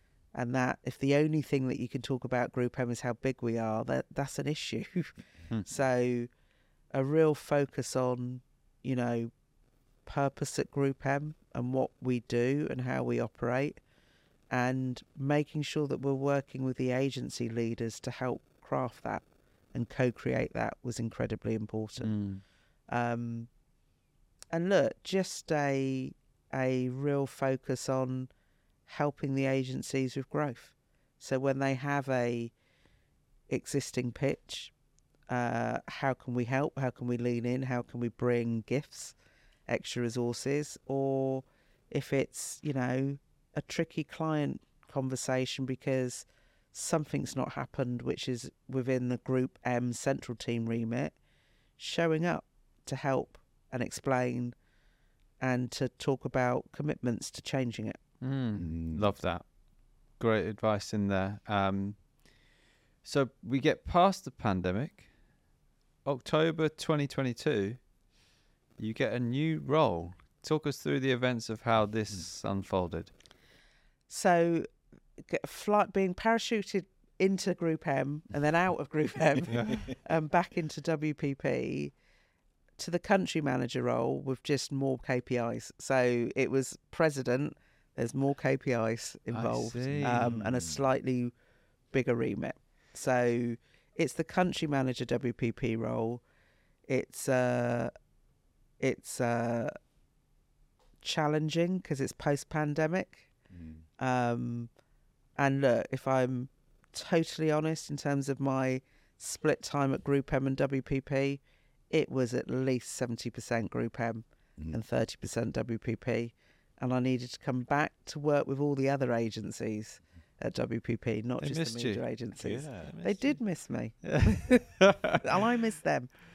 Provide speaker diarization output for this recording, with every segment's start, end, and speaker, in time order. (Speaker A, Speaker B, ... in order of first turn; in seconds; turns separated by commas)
Speaker A: 0.3-6.3, Speaker A: 6.9-9.3, Speaker A: 10.1-13.8, Speaker A: 14.5-22.1, Speaker B: 22.0-22.4, Speaker A: 22.9-23.5, Speaker A: 24.5-28.3, Speaker A: 28.9-32.5, Speaker A: 33.5-34.7, Speaker A: 35.3-39.1, Speaker A: 39.7-51.1, Speaker A: 51.8-54.5, Speaker A: 55.4-58.0, Speaker B: 58.2-59.4, Speaker C: 58.6-59.1, Speaker B: 60.2-62.0, Speaker B: 63.0-65.1, Speaker B: 66.0-67.8, Speaker B: 68.8-73.1, Speaker A: 74.1-74.7, Speaker A: 75.2-81.9, Speaker B: 79.5-79.8, Speaker A: 82.8-91.3, Speaker B: 89.3-90.4, Speaker C: 89.9-90.8, Speaker A: 91.9-96.2, Speaker A: 96.9-97.9, Speaker A: 98.8-99.7, Speaker A: 101.0-103.3, Speaker C: 103.5-103.8, Speaker A: 104.0-104.7, Speaker A: 105.4-124.6, Speaker B: 121.4-122.0, Speaker C: 122.4-122.9, Speaker B: 122.8-123.4, Speaker B: 124.0-125.2, Speaker A: 125.2-126.1